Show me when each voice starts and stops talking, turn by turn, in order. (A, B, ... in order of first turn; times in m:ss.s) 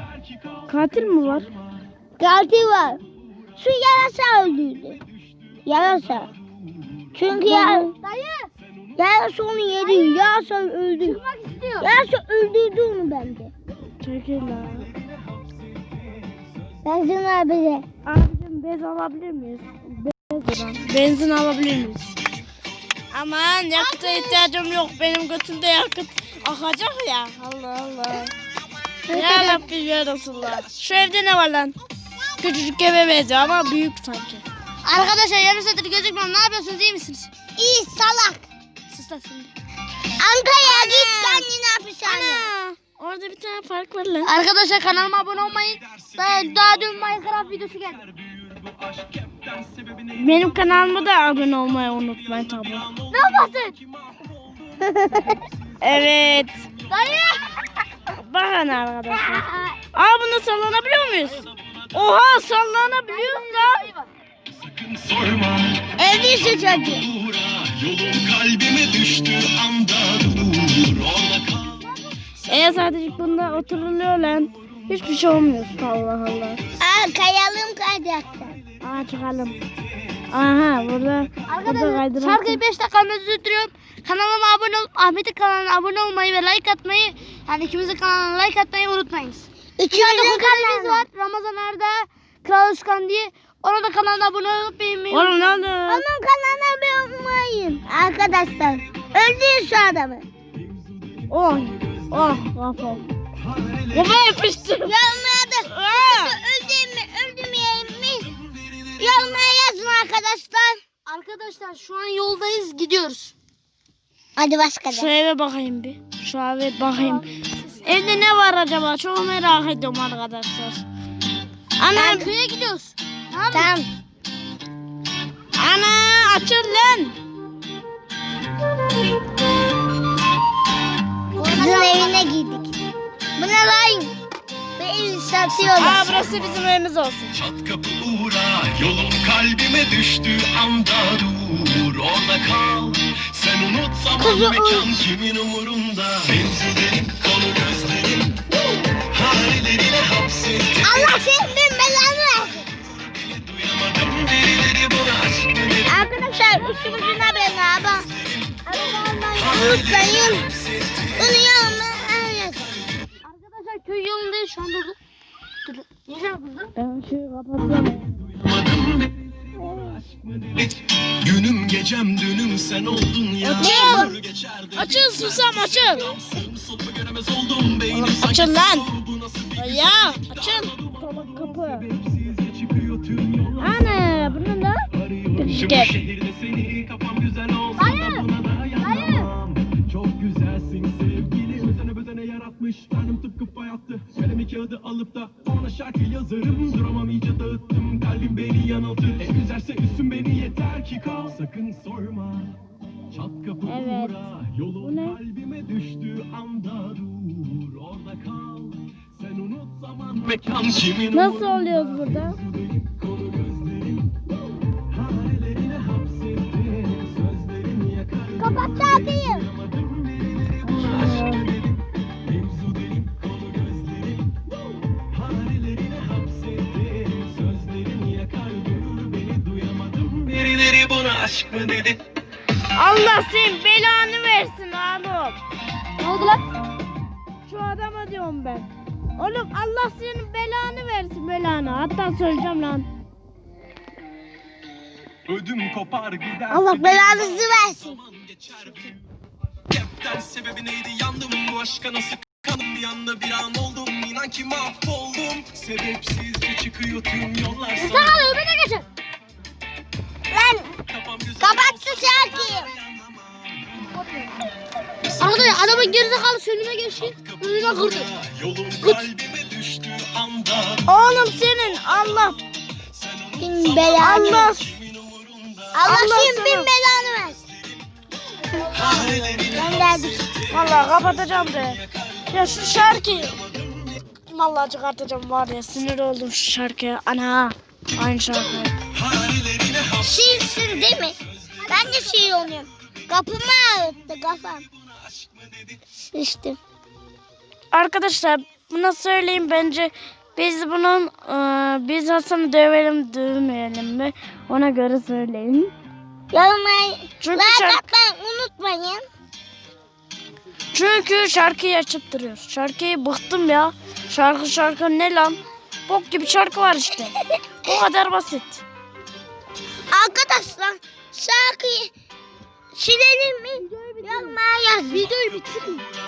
0:00.7-0:01.5 A
0:02.2-0:03.0 B
0:03.6-0:05.0 B
0:05.7-0:06.3 B
0:07.2-0:07.9 B
0:07.5-0:08.5 C
0:09.0-0:11.2 B
0:09.8-0:10.2 C
0:11.0-0:12.0 C
0:11.8-0:13.5 B
0:14.0-0:14.9 A
0:16.8-0:17.9 B
0:18.0-0:22.1 A
0:23.1-0:28.3 A
0:24.0-0:24.3 B
0:29.1-0:29.6 B
0:29.1-0:31.7 A
0:32.4-0:34.4 A
0:34.8-0:37.3 C
0:37.6-0:38.4 B
0:38.9-0:39.5 C
0:40.2-0:42.5 B
0:40.6-0:41.0 A
0:40.8-0:41.5 C
0:42.0-0:44.3 A
0:44.3-0:48.1 C
0:48.3-0:50.1 D
0:50.1-0:52.9 A
0:53.1-0:53.8 C
0:54.8-0:55.4 B
0:55.8-0:56.6 A
0:56.9-0:57.6 C
0:58.1-1:03.8 A
0:59.3-0:59.7 C
1:03.1-1:04.1 C
1:04.6-1:05.9 D
1:06.0-1:07.1 B
1:07.2-1:11.7 D
1:12.5-1:16.6 A
1:16.8-1:18.6 B
1:18.8-1:19.6 A
1:20.3-1:22.6 A
1:21.5-1:35.6 C
1:29.8-1:31.1 B
1:35.1-1:36.0 A
1:35.9-1:40.2 B
1:41.3-1:43.1 A
1:43.9-1:45.0 A
1:44.8-1:48.3 B
1:45.7-1:46.4 A
1:49.0-1:50.8 B
1:51.1-1:53.3 C
1:54.4-1:55.1 B
1:54.9-1:57.2 A
1:57.0-1:57.7 C
1:57.8-2:00.8 A
2:01.8-2:02.3 A
2:01.9-2:03.7 C
2:03.5-2:03.9 B
2:05.6-2:07.1 A
2:11.4-2:12.3 C
2:11.4-2:12.7 B
2:13.4-2:14.1 B
2:14.8-2:16.3 B
2:15.7-2:17.3 A
2:17.4-2:28.4 D
2:24.2-2:24.9 B
2:29.1-2:30.9 D
2:30.8-2:32.7 B
2:33.5-2:35.8 D
2:35.8-2:38.1 B
2:38.7-2:40.5 B
2:41.1-2:42.6 B
2:43.2-2:45.0 C
2:45.7-2:46.7 C
2:46.8-2:48.2 A
2:48.5-2:49.1 D
2:49.8-2:58.5 D
2:53.4-2:54.1 A
2:53.6-2:54.1 B
2:54.8-2:56.1 A
2:57.9-2:58.9 A
2:59.1-2:59.5 D
2:59.5-3:01.9 A
3:00.1-3:00.9 D
3:01.9-3:03.6 D
3:03.6-3:06.0 A
3:05.8-3:22.6 D
3:07.8-3:09.3 C
3:23.1-3:31.2 D
3:23.6-3:25.2 A
3:31.1-3:32.4 A
3:32.7-3:33.7 D
3:34.9-3:39.5 D
3:38.4-3:39.5 B
3:40.6-3:41.6 A
3:42.3-3:44.0 D
3:45.1-3:52.0 D
3:52.8-3:55.4 A
3:56.0-3:56.4 C
3:57.4-4:02.9 A
4:05.3-4:07.4 D
4:06.5-4:08.0 B
4:08.1-4:09.0 D
4:09.7-4:18.2 D
4:17.8-4:18.9 C
4:20.3-4:20.8 B
4:20.9-4:22.7 D
4:21.4-4:22.7 B
4:24.0-4:24.3 C
4:25.2-4:28.1 C
4:27.8-4:30.8 D
4:30.8-4:32.4 A
4:33.4-4:34.6 B
4:34.0-4:34.8 A
4:34.9-4:35.7 D
4:35.7-4:37.4 B
4:35.8-4:36.7 A
4:38.7-4:40.3 B
4:38.8-4:39.6 D
4:40.5-4:43.4 A
4:44.3-4:48.8 A
4:49.1-4:50.0 D
4:50.0-4:54.7 B
4:56.1-4:56.6 B
4:57.7-5:05.7 A
5:06.3-5:09.0 B
5:07.2-5:07.8 A
5:10.7-5:18.6 A
5:19.9-5:21.9 B
5:22.7-5:25.1 B
5:23.6-5:25.8 C